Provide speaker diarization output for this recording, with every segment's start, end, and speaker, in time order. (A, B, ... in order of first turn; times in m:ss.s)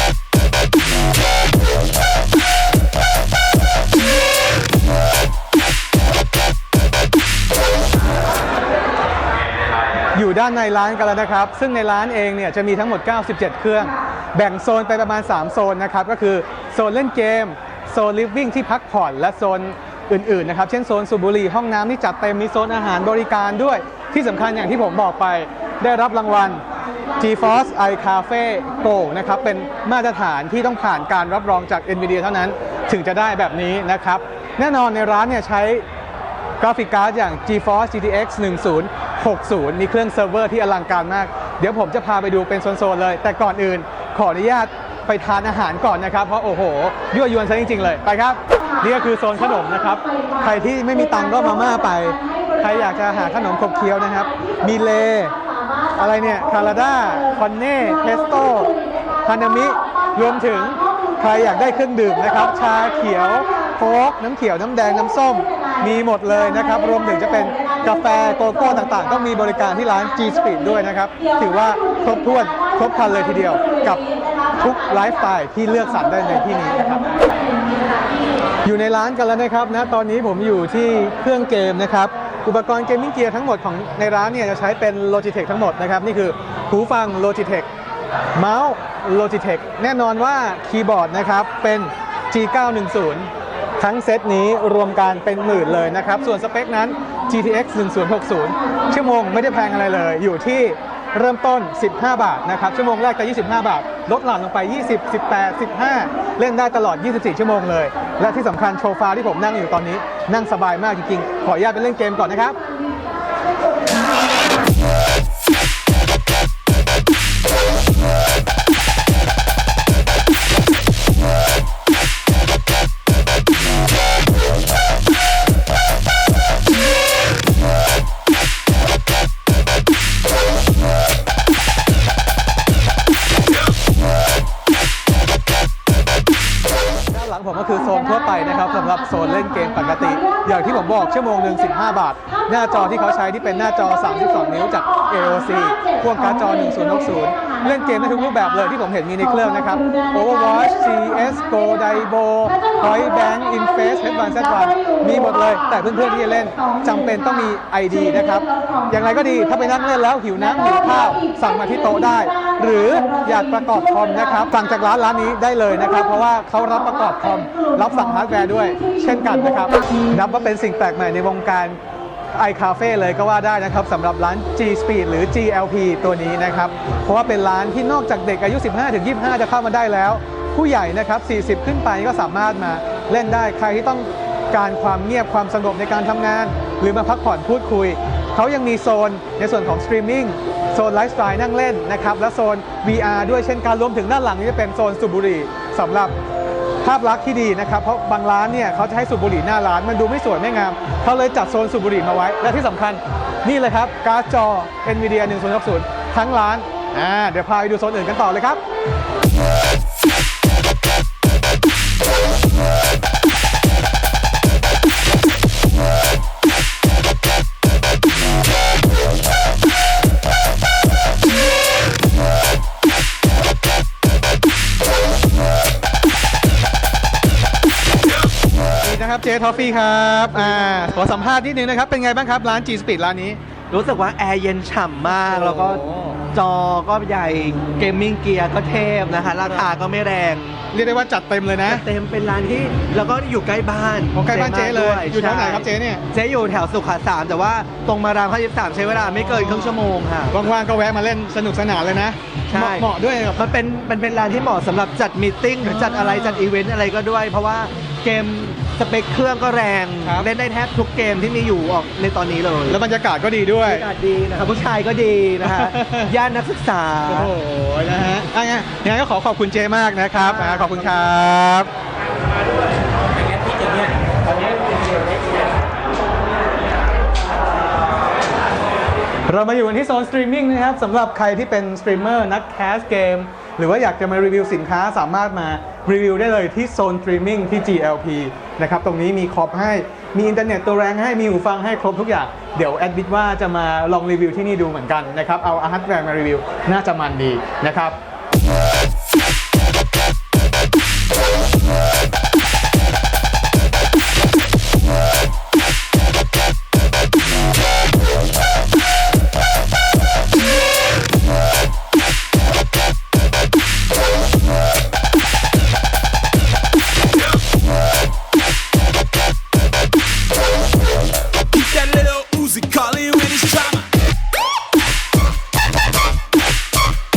0:10.1-0:26.6 A
0:27.2-0:35.8 A
0:36.6-0:55.4 A
0:55.9-1:17.1 A
1:18.6-1:27.7 A
1:28.4-1:52.6 A
2:17.1-2:51.8 A
2:52.3-3:16.1 A
3:16.8-3:28.6 A
3:48.8-3:53.4 A
3:50.4-3:51.1 B
3:53.7-4:00.6 B
3:55.2-3:56.1 A
4:00.7-4:01.8 A
4:01.6-4:10.3 B
4:04.1-4:06.0 A
4:10.3-4:13.4 A
4:12.5-4:22.8 B
4:20.0-4:20.3 A
4:22.7-4:23.8 A
4:23.6-4:27.3 B
4:25.4-4:26.1 A
4:27.1-4:31.7 A
4:30.2-4:31.0 B
4:39.3-4:58.0 A
5:21.6-5:23.9 C